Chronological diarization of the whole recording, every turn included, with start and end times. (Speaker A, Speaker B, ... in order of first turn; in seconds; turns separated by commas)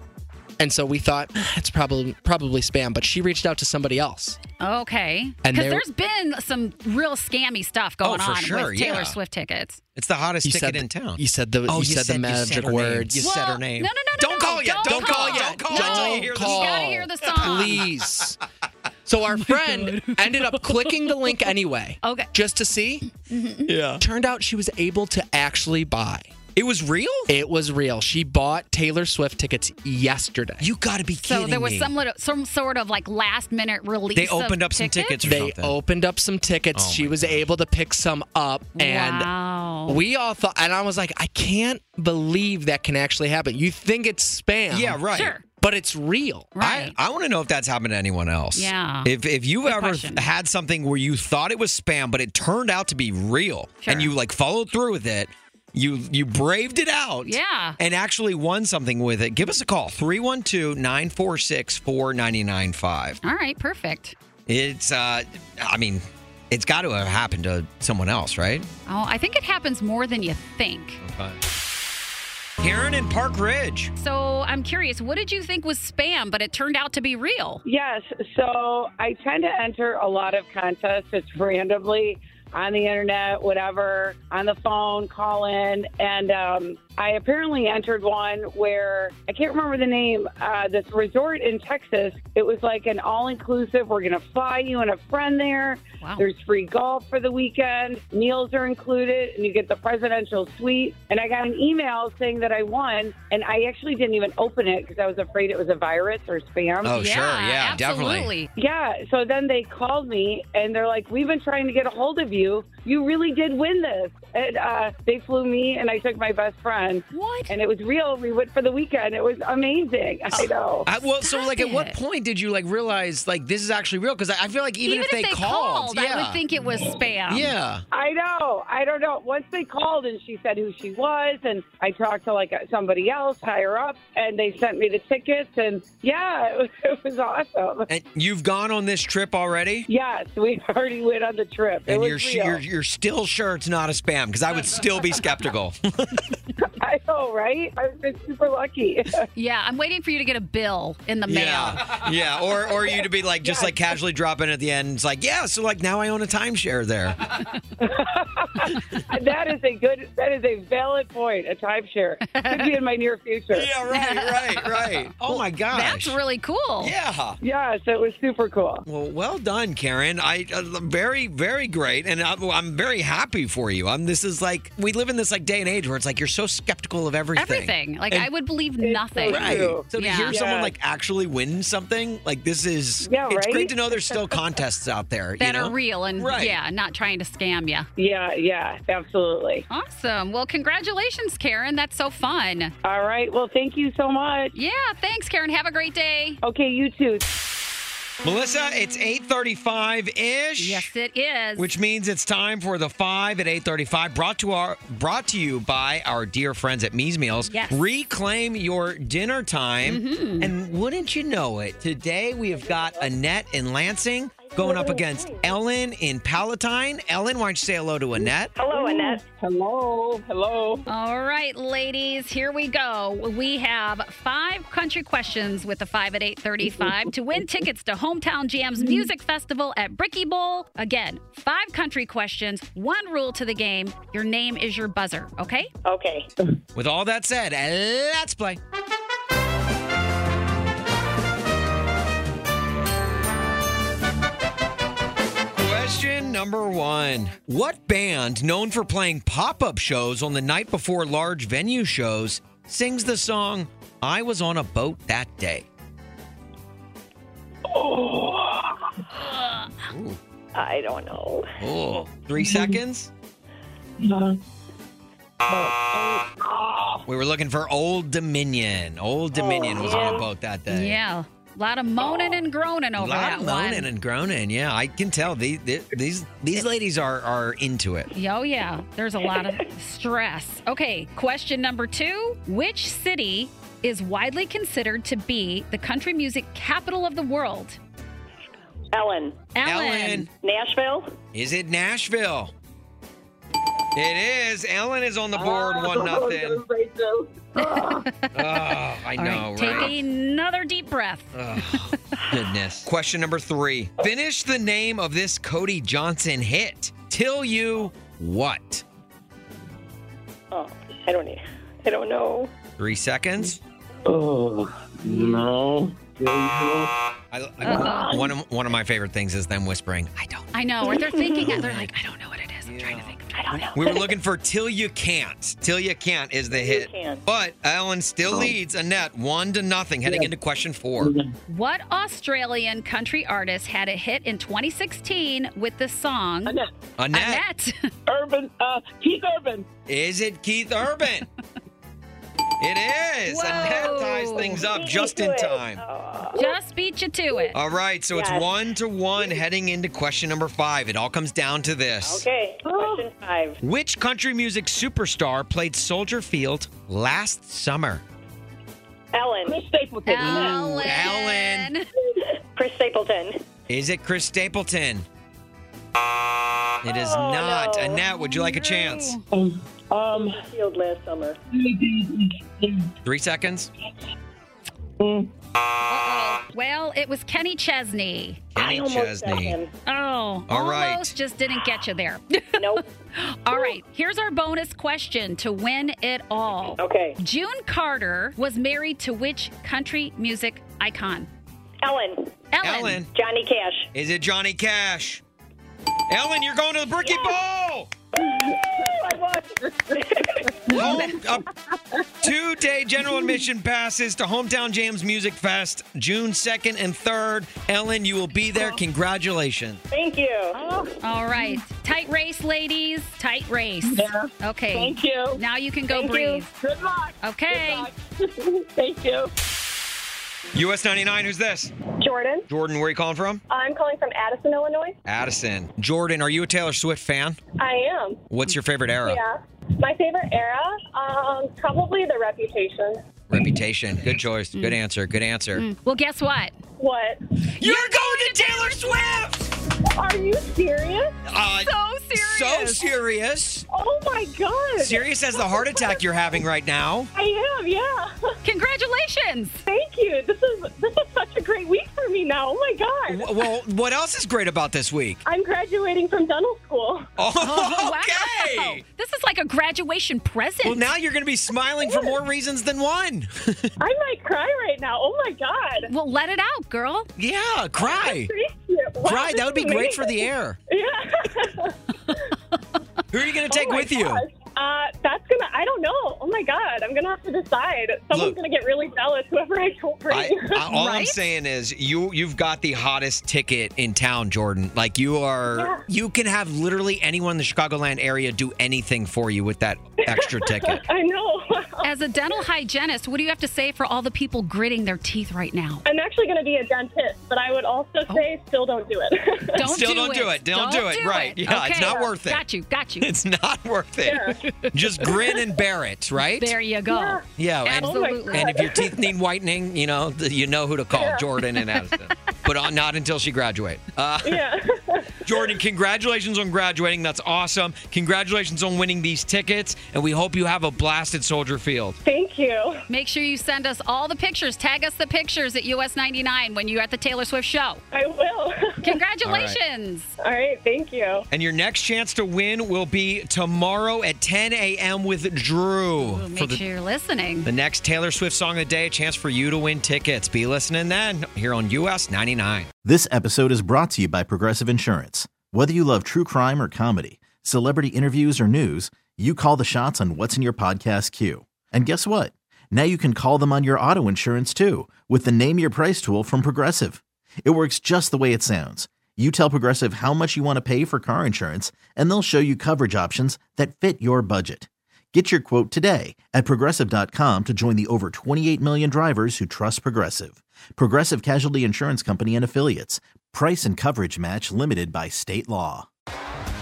Speaker A: 0.6-4.4, Speaker B: 4.6-9.8, Speaker A: 5.4-5.8, Speaker C: 8.0-9.2, Speaker C: 10.0-18.0, Speaker A: 10.4-13.3, Speaker B: 13.2-17.9, Speaker A: 14.8-18.4, Speaker A: 19.1-23.1, Speaker B: 19.4-21.4, Speaker B: 22.0-22.3, Speaker B: 23.3-23.7, Speaker C: 23.7-24.0, Speaker A: 24.0-26.4, Speaker C: 26.6-27.3, Speaker A: 27.3-30.7, Speaker C: 30.6-31.9, Speaker B: 31.2-35.2, Speaker C: 34.2-35.8, Speaker A: 35.2-39.3, Speaker C: 36.7-37.5, Speaker B: 38.8-40.0, Speaker A: 39.9-46.6, Speaker C: 44.7-45.4, Speaker B: 45.1-45.4, Speaker B: 46.6-47.0, Speaker C: 46.6-63.2, Speaker B: 48.5-49.1, Speaker B: 49.6-50.3, Speaker B: 53.8-54.1, Speaker B: 57.2-57.8, Speaker B: 63.2-64.2, Speaker C: 64.5-68.7, Speaker B: 68.9-71.0, Speaker C: 71.0-71.4, Speaker C: 72.6-73.9, Speaker B: 74.0-77.6, Speaker D: 77.7-106.9, Speaker B: 96.0-96.3, Speaker C: 106.8-108.3, Speaker B: 106.9-108.5, Speaker D: 108.6-120.8, Speaker B: 117.1-117.6, Speaker C: 120.3-126.4, Speaker B: 121.2-122.0, Speaker B: 124.8-127.5, Speaker C: 127.3-127.8, Speaker D: 127.9-137.9, Speaker C: 137.9-139.9, Speaker D: 139.9-142.6, Speaker C: 141.8-146.3, Speaker D: 146.8-149.2, Speaker B: 149.3-151.9, Speaker C: 151.3-157.4, Speaker D: 157.8-163.7, Speaker B: 162.3-162.8, Speaker C: 163.5-166.2, Speaker B: 163.9-166.9, Speaker C: 166.8-167.4, Speaker D: 167.4-168.8, Speaker C: 168.8-178.3, Speaker B: 177.4-180.4, Speaker D: 178.8-180.7, Speaker C: 179.3-186.6, Speaker D: 183.1-183.7, Speaker B: 185.4-187.9, Speaker D: 188.0-189.6, Speaker B: 189.7-192.7, Speaker D: 192.8-194.5, Speaker B: 194.5-196.4, Speaker D: 196.4-197.2, Speaker C: 198.2-200.9, Speaker B: 200.6-201.7, Speaker C: 201.6-218.5, Speaker B: 207.5-207.8, Speaker B: 209.8-210.5, Speaker E: 212.6-213.1, Speaker E: 214.4-215.5, Speaker E: 218.6-219.2, Speaker D: 218.7-220.8, Speaker B: 220.9-235.7, Speaker E: 235.8-236.3, Speaker C: 236.8-238.6, Speaker C: 245.6-255.7, Speaker C: 259.9-260.2, Speaker E: 260.6-261.5, Speaker C: 261.6-263.1, Speaker D: 265.5-266.9, Speaker C: 267.1-271.0, Speaker E: 269.3-270.3, Speaker B: 270.7-273.9, Speaker E: 272.0-272.4, Speaker C: 273.0-278.1, Speaker B: 278.1-287.8, Speaker E: 288.9-289.3, Speaker B: 289.6-290.3, Speaker C: 289.6-290.3, Speaker E: 290.4-291.1, Speaker C: 291.3-292.5, Speaker C: 293.9-296.7, Speaker D: 295.4-298.0, Speaker B: 297.6-302.3, Speaker C: 298.3-299.9, Speaker C: 301.4-308.8, Speaker E: 310.5-312.5, Speaker C: 312.8-313.6, Speaker D: 315.2-315.6, Speaker C: 317.3-320.5, Speaker B: 317.6-318.2, Speaker B: 320.5-323.4, Speaker E: 320.9-321.5, Speaker C: 321.5-321.9, Speaker C: 322.7-323.1, Speaker E: 323.4-324.1, Speaker C: 323.7-331.2, Speaker E: 326.5-327.2, Speaker B: 331.5-336.6, Speaker C: 337.0-337.4, Speaker B: 337.1-337.9, Speaker D: 338.1-339.6, Speaker C: 339.9-341.3, Speaker C: 342.6-345.8, Speaker B: 343.3-344.6, Speaker E: 344.4-346.5, Speaker B: 346.4-347.6, Speaker C: 347.5-352.3, Speaker E: 348.1-348.5, Speaker E: 352.0-353.6, Speaker D: 352.7-353.0, Speaker C: 353.6-358.0, Speaker E: 359.1-359.6, Speaker D: 359.5-360.7, Speaker B: 360.1-361.9, Speaker C: 360.2-361.7, Speaker E: 362.6-363.4, Speaker C: 363.7-365.1, Speaker C: 366.8-369.2, Speaker E: 366.9-368.0, Speaker B: 368.2-369.2, Speaker D: 369.4-370.4, Speaker E: 370.1-371.4, Speaker D: 371.6-372.2, Speaker C: 373.0-373.7, Speaker D: 375.0-375.3, Speaker B: 375.9-378.4, Speaker C: 378.6-379.6, Speaker E: 378.6-379.7, Speaker B: 379.9-391.3, Speaker C: 380.5-381.1, Speaker E: 382.6-382.8, Speaker E: 386.8-387.2, Speaker E: 391.8-392.3, Speaker B: 392.5-393.0, Speaker C: 392.6-393.1, Speaker E: 393.2-393.9, Speaker C: 393.9-395.2, Speaker C: 396.1-397.9, Speaker E: 397.1-397.3, Speaker E: 398.3-399.3, Speaker D: 398.4-399.4, Speaker E: 400.0-401.1, Speaker C: 400.7-401.5, Speaker C: 402.2-409.8, Speaker E: 409.9-410.6, Speaker B: 411.0-416.5, Speaker D: 414.0-414.2, Speaker E: 414.8-415.4, Speaker E: 415.9-419.3, Speaker B: 417.2-417.9, Speaker C: 420.5-421.7, Speaker E: 422.0-422.5, Speaker C: 422.5-423.4, Speaker E: 423.5-425.0, Speaker C: 425.1-427.4, Speaker E: 427.6-428.2, Speaker C: 428.3-429.2, Speaker E: 429.0-433.0, Speaker C: 433.3-435.6, Speaker B: 435.5-436.6, Speaker E: 436.8-437.2, Speaker C: 437.6-439.5, Speaker B: 437.6-439.0, Speaker E: 439.9-441.1, Speaker C: 441.3-443.6, Speaker B: 441.6-442.9, Speaker E: 443.7-446.1, Speaker C: 444.8-447.1, Speaker E: 447.1-448.4, Speaker B: 448.4-449.6, Speaker E: 449.7-453.5, Speaker C: 453.1-455.2, Speaker E: 455.2-457.1, Speaker C: 457.2-458.8, Speaker B: 457.4-460.9, Speaker C: 460.6-463.7, Speaker E: 461.9-462.1, Speaker E: 463.8-465.9, Speaker B: 465.9-467.1, Speaker C: 467.2-468.3, Speaker E: 467.8-472.2, Speaker C: 469.0-470.6, Speaker C: 473.1-474.2, Speaker E: 473.5-480.6, Speaker C: 478.1-478.4, Speaker C: 480.1-490.8, Speaker B: 480.7-481.3, Speaker E: 485.6-485.8, Speaker E: 490.0-492.4, Speaker B: 491.8-495.8, Speaker E: 495.9-499.6, Speaker B: 499.6-503.1, Speaker C: 499.6-502.4, Speaker C: 503.0-506.5, Speaker E: 504.1-504.4, Speaker B: 506.2-508.5, Speaker E: 506.9-507.3, Speaker C: 507.4-514.5, Speaker E: 507.8-508.9, Speaker E: 510.9-511.3, Speaker E: 514.2-515.5, Speaker C: 515.2-522.0, Speaker E: 522.0-522.8, Speaker B: 522.9-527.8, Speaker E: 527.9-529.0, Speaker B: 528.8-530.1, Speaker C: 529.2-529.6, Speaker E: 530.2-531.2, Speaker C: 531.3-536.6, Speaker B: 536.0-537.5, Speaker C: 537.5-542.7, Speaker F: 542.8-575.9